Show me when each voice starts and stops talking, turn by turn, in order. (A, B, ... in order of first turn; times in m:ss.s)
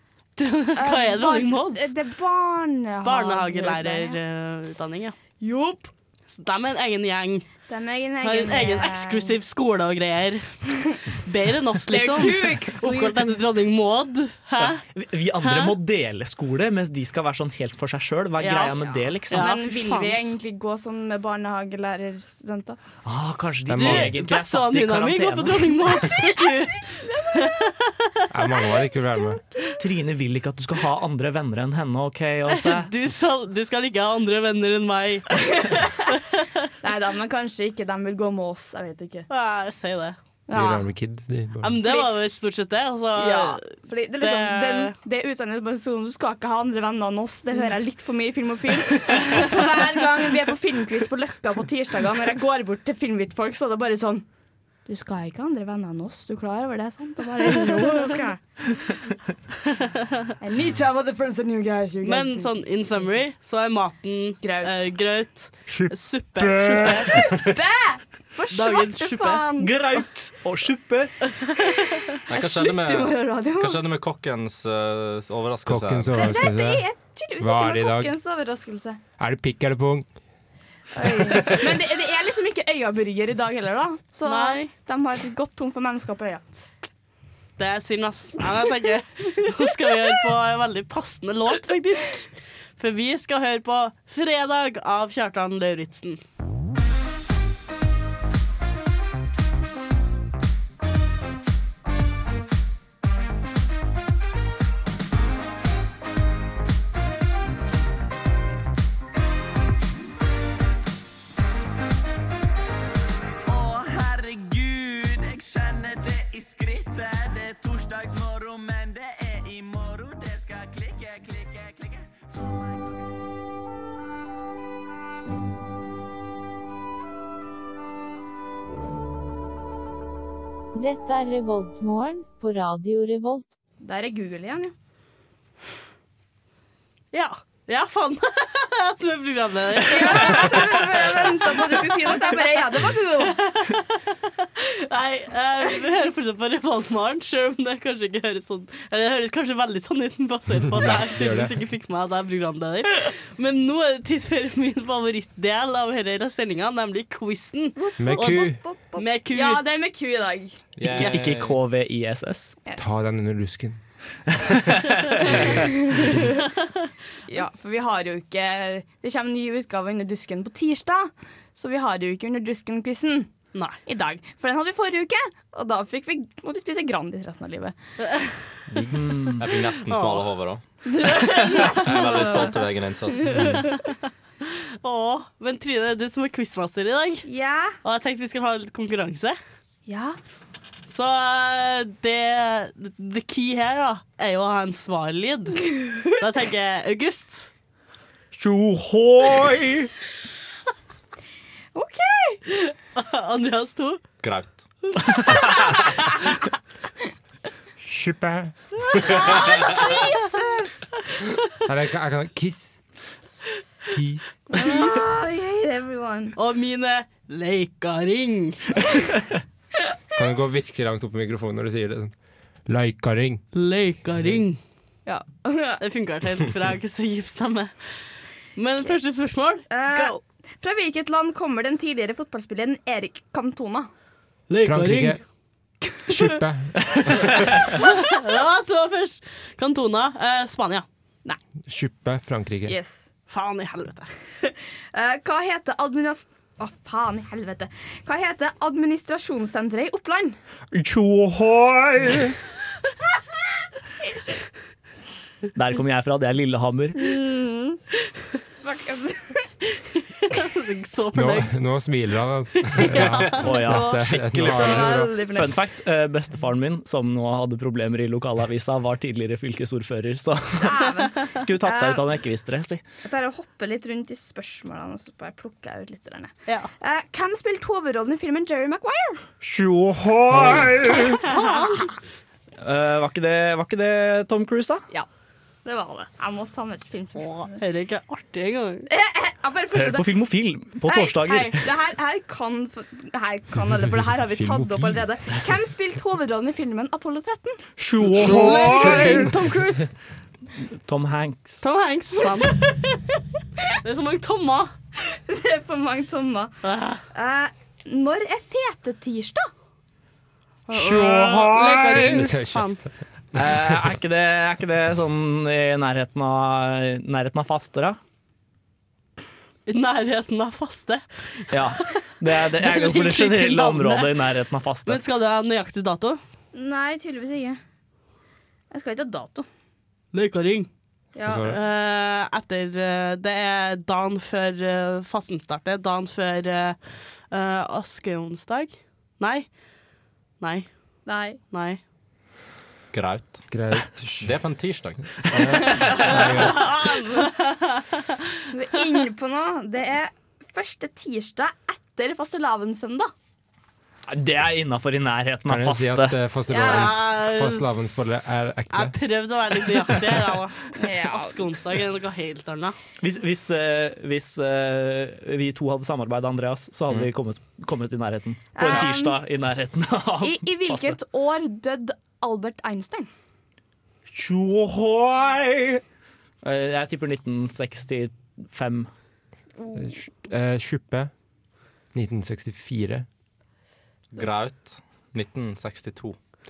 0:00.4-0:01.9 A
0:00.8-0:04.2 B
0:03.0-0:05.3 A
0:05.4-0:05.9 B
0:06.3-0:07.5 A
0:07.7-0:09.4 B
0:08.2-0:10.6 A
0:11.1-0:14.8 A
0:11.8-0:13.4 B
0:14.6-0:19.6 C
0:15.4-0:15.8 A
0:18.4-0:20.3 A
0:18.8-0:22.8 B
0:23.0-0:26.0 C
0:23.7-0:24.1 D
0:23.7-0:28.2 A
0:26.8-0:27.6 B
0:28.3-0:29.4 D
0:28.5-0:29.8 B
0:29.8-0:32.9 C
0:32.5-0:35.5 A
0:35.5-0:36.0 B
0:36.1-0:36.6 A
0:36.8-0:39.3 B
0:39.3-0:40.2 A
0:40.5-0:40.9 B
0:40.5-0:41.8 D
0:41.6-0:43.7 A
0:41.8-0:42.1 B
0:43.2-0:54.2 B
0:44.2-0:45.0 A
0:54.9-0:58.5 B
0:59.7-1:00.3 A
1:00.4-1:03.1 B
1:02.0-1:07.4 A
1:04.4-1:04.9 B
1:05.7-1:06.8 D
1:06.8-1:09.8 B
1:08.5-1:09.5 A
1:09.6-1:11.2 C
1:11.8-1:13.8 B
1:12.3-1:16.4 E
1:15.6-1:18.1 D
1:16.1-1:19.0 B
1:19.2-1:20.1 D
1:20.9-1:26.6 B
1:21.0-1:21.7 D
1:24.2-1:24.7 A
1:27.6-1:36.2 A
1:53.5-2:03.2 F
2:10.8-2:13.5 G
2:13.8-2:14.7 B
2:17.1-2:20.5 A
2:19.8-2:23.4 B
2:23.5-2:39.6 A
2:30.7-2:31.6 D
2:37.8-2:41.2 B
2:38.0-2:38.6 D
2:40.8-2:41.6 E
2:40.8-2:42.6 C
2:42.8-2:43.8 D
2:44.4-2:45.1 C
2:45.2-2:46.4 B
2:47.3-2:53.3 B
2:53.6-2:53.8 A
2:53.8-2:57.8 B
2:58.0-2:58.4 A
2:58.9-2:59.4 C
2:59.4-3:00.6 E
2:59.9-3:00.3 A
3:00.9-3:03.7 B
3:01.6-3:03.6 E
3:04.8-3:07.3 A
3:07.3-3:07.8 B
3:07.8-3:09.4 A
3:09.9-3:10.2 B
3:10.9-3:17.5 A
3:18.3-3:19.9 C
3:21.7-3:22.4 B
3:22.6-3:24.0 A
3:24.2-3:24.7 E
3:27.8-3:28.5 D
3:28.8-3:30.7 B
3:31.6-3:32.8 D
3:33.9-3:34.6 D
3:34.5-3:36.3 B
3:36.4-3:38.8 A
3:40.2-3:42.1 D
3:42.7-3:43.4 D
3:43.5-3:44.6 A
3:45.1-3:45.8 B
3:45.8-3:47.7 A
3:48.6-3:50.2 A
3:49.7-3:53.9 B
3:54.5-3:55.2 A
3:54.6-3:55.2 D
3:56.1-3:57.4 D
3:57.3-3:57.6 C
3:57.8-4:00.9 A
4:01.7-4:02.8 D
4:02.7-4:03.1 B
4:03.3-4:04.1 A
4:04.4-4:10.4 B
4:10.7-4:12.4 C
4:14.0-4:14.4 B
4:15.6-4:17.1 C
4:17.0-4:17.8 B
4:18.6-4:19.5 B
4:20.1-4:21.5 A
4:21.1-4:25.1 D
4:22.9-4:23.2 A
4:23.2-4:32.8 C
4:23.6-4:25.6 B
4:30.6-4:32.2 B
4:33.0-4:39.2 B
4:39.4-4:41.2 C
4:40.9-4:41.9 A
4:41.0-4:41.6 B
4:42.6-4:44.8 C
4:45.6-4:47.6 B
4:47.2-4:48.9 A
4:48.9-4:50.3 B
4:49.7-4:51.7 C
4:50.8-4:57.6 B
4:54.2-4:55.0 D
4:57.8-4:59.4 C
4:58.2-4:59.4 D
4:58.2-4:59.8 A
5:00.8-5:01.6 C
5:01.6-5:02.8 A
5:03.8-5:04.7 A
5:05.0-5:06.6 B
5:06.6-5:07.0 A
5:07.1-5:09.5 B
5:10.7-5:12.8 A
5:10.8-5:12.0 C
5:11.7-5:13.7 D
5:13.3-5:18.0 C
5:19.7-5:21.6 A
5:21.5-5:25.0 C
5:22.5-5:24.1 A
5:24.8-5:26.2 A
5:26.5-5:27.6 B
5:28.7-5:29.5 B
5:30.1-5:30.7 A
5:31.2-5:31.6 B
5:31.2-5:31.6 D
5:31.4-5:36.8 A
5:37.3-5:39.5 A
5:40.4-5:40.7 A
5:41.1-5:41.4 B
5:41.5-5:41.8 A
5:42.9-5:43.5 E
5:43.5-5:44.3 D
5:44.2-5:45.6 E
5:45.3-5:46.7 D
5:45.8-5:47.4 B
5:45.9-5:48.2 A
5:48.5-5:53.1 B
5:54.1-5:56.2 C
5:55.5-5:59.0 D
5:56.5-5:57.0 B
5:56.5-5:58.2 A
5:58.7-6:02.8 A
6:00.8-6:01.5 B
6:03.0-6:11.0 C
6:08.6-6:09.2 B
6:10.2-6:13.1 B
6:14.1-6:15.8 C
6:16.4-6:18.9 C
6:19.6-6:20.0 B
6:19.8-6:21.1 D
6:21.9-6:23.1 D
6:24.1-6:26.2 E